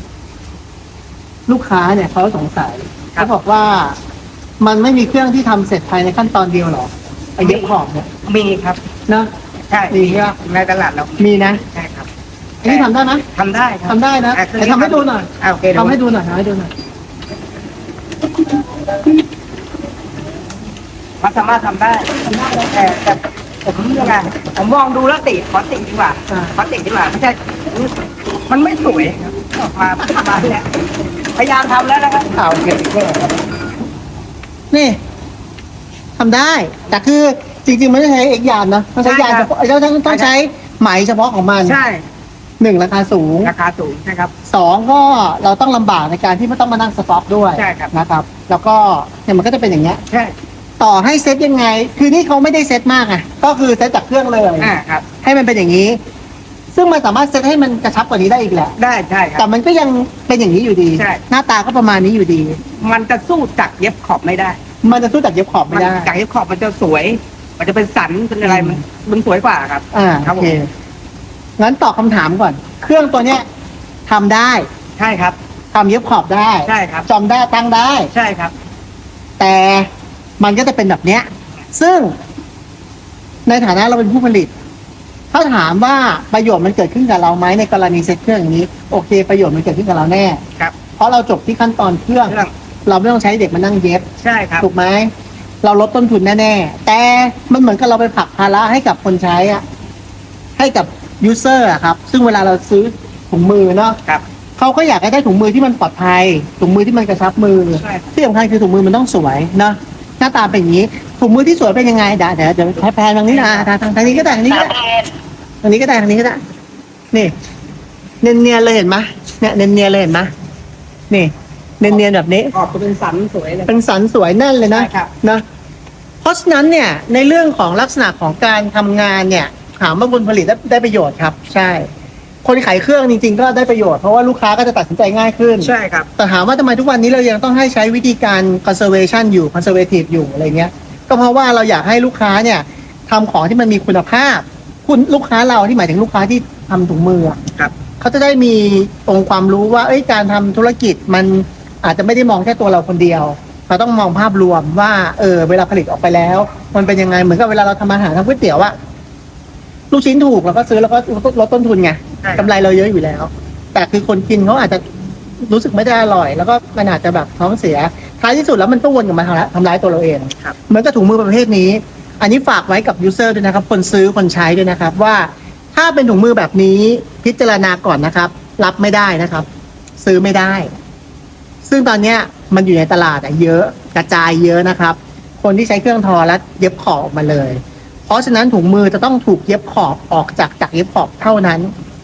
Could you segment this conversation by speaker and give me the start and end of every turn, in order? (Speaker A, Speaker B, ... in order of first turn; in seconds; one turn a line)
Speaker A: 1.5-4.0
Speaker A: 4.6-8.1
Speaker B: 7.4-7.7
Speaker B: 8.2-8.8
Speaker B: 9.7-12.1
Speaker A: 9.9-10.3
Speaker A: 11.2-11.6
Speaker A: 12.6-13.2
Speaker B: 12.6-16.0
Speaker A: 13.9-16.7
Speaker B: 21.2-27.9
Speaker A: 22.3-22.7
Speaker B: 28.5-30.7
Speaker B: 31.3-32.3
Speaker A: 32.4-33.3
Speaker A: 34.7-35.0
Speaker A: 36.2-41.8
Speaker B: 39.0-39.5
Speaker B: 40.0-40.3
Speaker B: 41.6-42.0
Speaker A: 42.6-43.5
Speaker B: 43.4-44.3
Speaker A: 44.5-50.0
Speaker B: 47.5-47.9
Speaker B: 50.1-50.3
Speaker A: 50.8-54.7
Speaker B: 54.6-55.0
Speaker A: 55.2-56.0
Speaker A: 56.7-58.7
Speaker B: 58.8-59.5
Speaker A: 59.4-62.6
Speaker B: 61.0-61.2
Speaker B: 62.8-64.6
Speaker A: 64.8-66.2
Speaker B: 65.7-70.5
Speaker A: 68.4-68.8
Speaker A: 69.9-70.7
Speaker A: 71.6-73.4
Speaker A: 74.1-74.7
Speaker B: 75.0-75.4
Speaker A: 75.7-78.1
Speaker B: 76.7-77.1
Speaker B: 78.1-78.5
Speaker A: 79.4-79.9
Speaker A: 80.4-82.1
Speaker A: 83.5-84.5
Speaker A: 85.3-90.4
Speaker A: 91.0-92.3
Speaker B: 92.3-92.5
Speaker A: 92.9-94.0
Speaker B: 94.2-94.7
Speaker A: 94.6-95.1
Speaker A: 95.6-99.6
Speaker A: 100.6-104.0
Speaker A: 104.6-114.8
Speaker B: 107.8-108.1
Speaker B: 113.3-114.8
Speaker A: 115.6-116.4
Speaker A: 118.2-120.3
Speaker A: 121.1-122.5
Speaker B: 122.5-123.7
Speaker A: 123.7-125.4
Speaker B: 124.7-125.1
Speaker A: 126.2-131.9
Speaker A: 132.4-147.4
Speaker B: 135.6-136.1
Speaker A: 148.0-158.7
Speaker A: 159.9-164.8
Speaker B: 162.2-162.5
Speaker A: 165.4-179.5
Speaker A: 180.0-180.7
Speaker A: 181.6-191.7